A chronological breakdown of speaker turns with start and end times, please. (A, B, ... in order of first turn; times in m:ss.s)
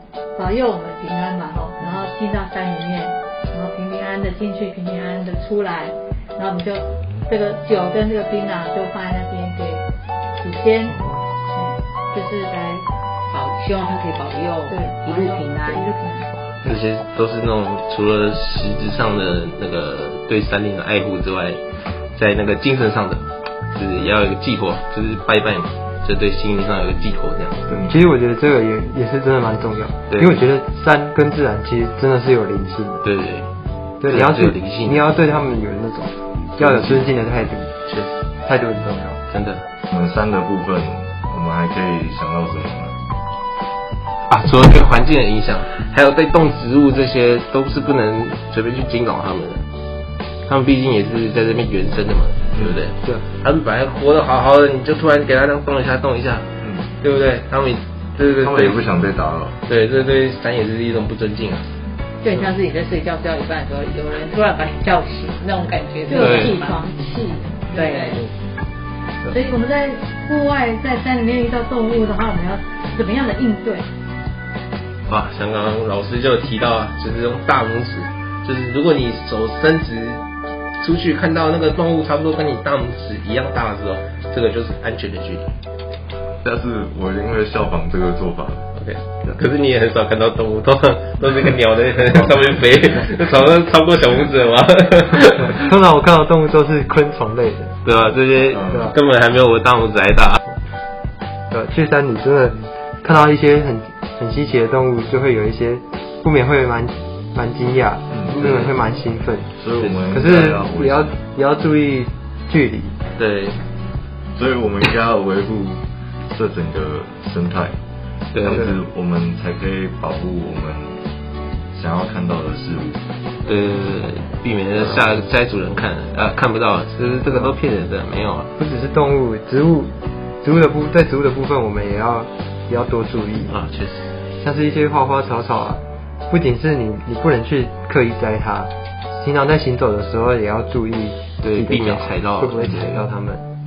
0:00.3-0:09.8 A
0:10.4-0:11.0 A
0:10.9-0:11.2 B
0:11.5-0:12.8 A
0:13.3-0:15.9 C
0:14.7-0:16.3 A
0:16.6-0:21.6 D
0:22.1-0:27.7 D
0:27.7-0:28.0 E
0:27.8-0:33.0 B
0:30.1-0:30.4 D
0:33.0-0:33.5 D
0:34.0-0:37.7 B
0:34.0-0:35.0 D
0:36.6-0:37.1 D
0:37.8-0:38.2 D
0:38.4-0:39.2 B
0:39.3-0:39.6 D
0:39.9-0:43.0 E
0:44.3-0:49.6 D
0:50.5-0:56.5 D
0:56.6-0:56.9 E
0:57.0-0:58.8 D
0:58.4-0:59.6 E
0:59.6-1:01.7 D
1:02.2-1:06.8 C
1:06.1-1:08.2 A
1:06.2-1:06.6 D
1:07.7-1:08.2 C
1:09.3-1:13.9 A
1:15.1-1:20.2 D
1:20.8-1:25.5 D
1:26.4-1:28.7 E
1:28.8-1:35.6 D
1:35.4-1:37.8 B
1:37.8-1:40.4 D
1:38.5-1:39.0 E
1:38.7-1:38.9 B
1:41.5-1:49.5 B
1:48.1-1:48.5 E
1:48.4-1:48.8 D
1:49.6-1:51.1 E
1:49.8-1:50.0 D
1:50.1-1:53.0 B
1:53.2-1:53.6 D
1:54.4-1:57.7 E
1:58.3-1:58.7 D
1:58.4-2:01.0 E
1:58.5-1:58.8 B
2:01.7-2:03.0 E
2:03.4-2:08.5 D
2:07.3-2:07.5 B
2:08.6-2:13.6 B
2:13.5-2:14.1 D
2:14.4-2:23.4 B
2:21.4-2:23.0 D